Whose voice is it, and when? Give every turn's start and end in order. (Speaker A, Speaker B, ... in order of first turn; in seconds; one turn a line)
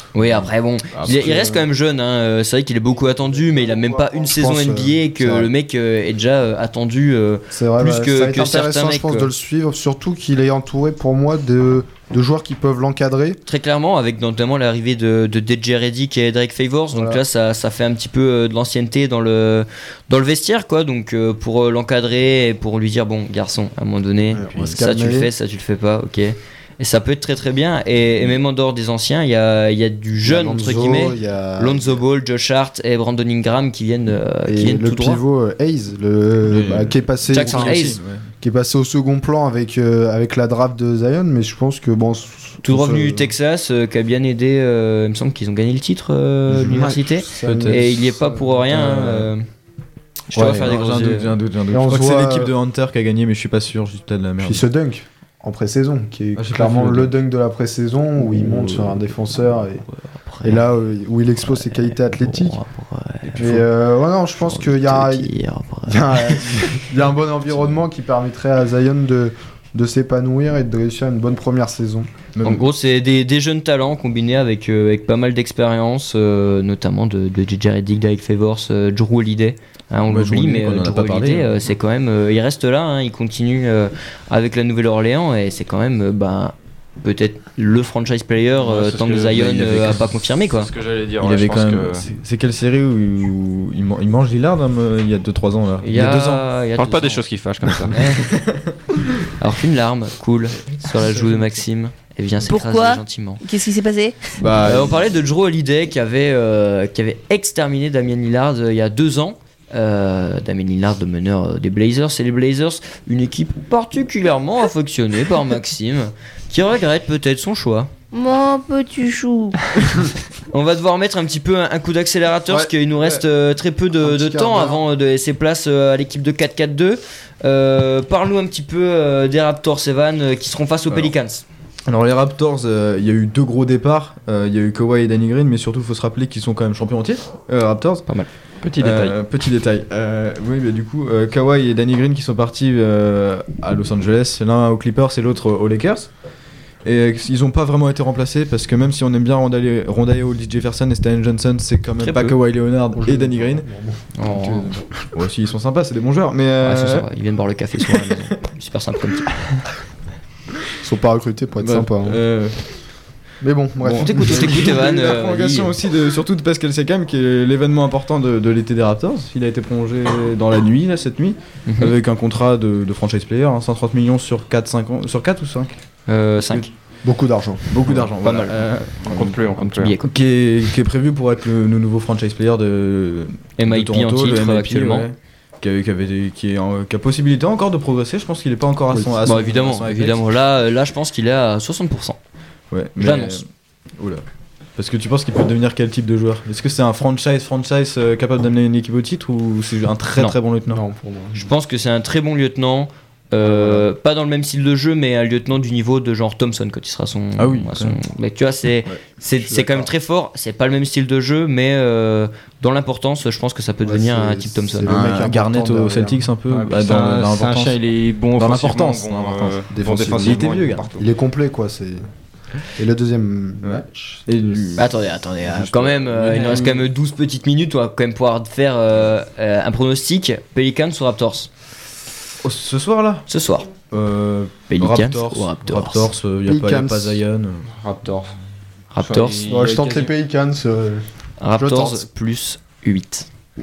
Speaker A: 0.1-9.3
Speaker B: 0.9-1.6
Speaker C: 1.1-1.4
Speaker C: 3.2-5.5
Speaker C: 7.5-13.4
Speaker A: 13.4-35.2
Speaker C: 16.9-17.2
Speaker C: 24.3-25.3
Speaker C: 30.2-32.0
Speaker C: 34.4-37.9
Speaker B: 36.5-38.3
Speaker A: 37.3-38.0
Speaker C: 38.4-43.3
Speaker A: 42.6-49.4
Speaker C: 46.5-48.6
Speaker B: 47.4-49.3
Speaker A: 50.3-51.3
Speaker B: 50.3-54.6
Speaker C: 51.7-52.5
Speaker C: 54.4-59.8
Speaker B: 56.3-57.1
Speaker B: 58.4-59.0
Speaker A: 60.1-60.7
Speaker C: 60.4-62.6
Speaker A: 61.4-63.7
Speaker C: 63.2-65.3
Speaker A: 64.4-66.8
Speaker C: 65.9-72.1
Speaker B: 72.3-72.7
Speaker A: 72.4-90.7
Speaker B: 80.0-81.5
Speaker D: 88.6-89.7
Speaker B: 89.3-90.1
Speaker D: 90.5-92.0
Speaker B: 91.2-96.4
Speaker A: 95.8-97.2
Speaker D: 96.8-98.0
Speaker A: 97.9-98.3
Speaker B: 98.1-99.3
Speaker A: 99.4-103.4
Speaker B: 101.0-101.5
Speaker E: 102.5-104.5
Speaker B: 104.4-105.2
Speaker A: 104.6-117.9
Speaker E: 118.1-119.6
Speaker A: 120.5-131.4
Speaker C: 122.5-123.2
Speaker C: 124.0-124.8
Speaker B: 131.9-146.2
Speaker D: 138.6-139.1
Speaker B: 146.8-153.7
Speaker A: 152.0-152.3
Speaker C: 152.9-154.1
Speaker A: 154.2-154.8
Speaker B: 154.2-157.1
Speaker A: 156.6-159.3
Speaker B: 157.8-158.2
Speaker C: 160.8-162.2
Speaker B: 161.6-162.9
Speaker C: 163.4-164.7
Speaker B: 163.8-175.7
Speaker A: 164.0-165.7
Speaker A: 171.7-171.9
Speaker A: 176.1-176.7
Speaker C: 177.0-177.6
Speaker B: 177.7-179.5
Speaker D: 177.9-179.9
Speaker A: 178.2-178.5
Speaker A: 179.8-180.1
Speaker B: 180.0-190.2
Speaker A: 183.6-185.1
Speaker C: 188.9-189.2
Speaker A: 189.2-192.2
Speaker B: 192.7-194.2
Speaker A: 192.9-193.4
Speaker B: 194.8-200.8
Speaker C: 200.7-201.5
Speaker A: 201.3-215.1
Speaker B: 203.4-203.8
Speaker B: 207.4-208.0
Speaker C: 209.4-209.9
Speaker C: 213.8-216.3
Speaker B: 214.8-217.8
Speaker D: 216.5-221.0
Speaker B: 218.3-220.9
Speaker C: 219.7-222.1
Speaker C: 222.7-224.7
Speaker B: 223.6-226.9
Speaker A: 224.7-231.5
Speaker B: 232.4-233.2
Speaker A: 233.3-233.7
Speaker B: 233.9-237.7
Speaker A: 234.7-236.1
Speaker C: 236.4-237.2
Speaker D: 237.7-238.3
Speaker A: 238.9-239.4
Speaker D: 239.0-240.1
Speaker C: 239.4-242.1
Speaker A: 241.4-243.3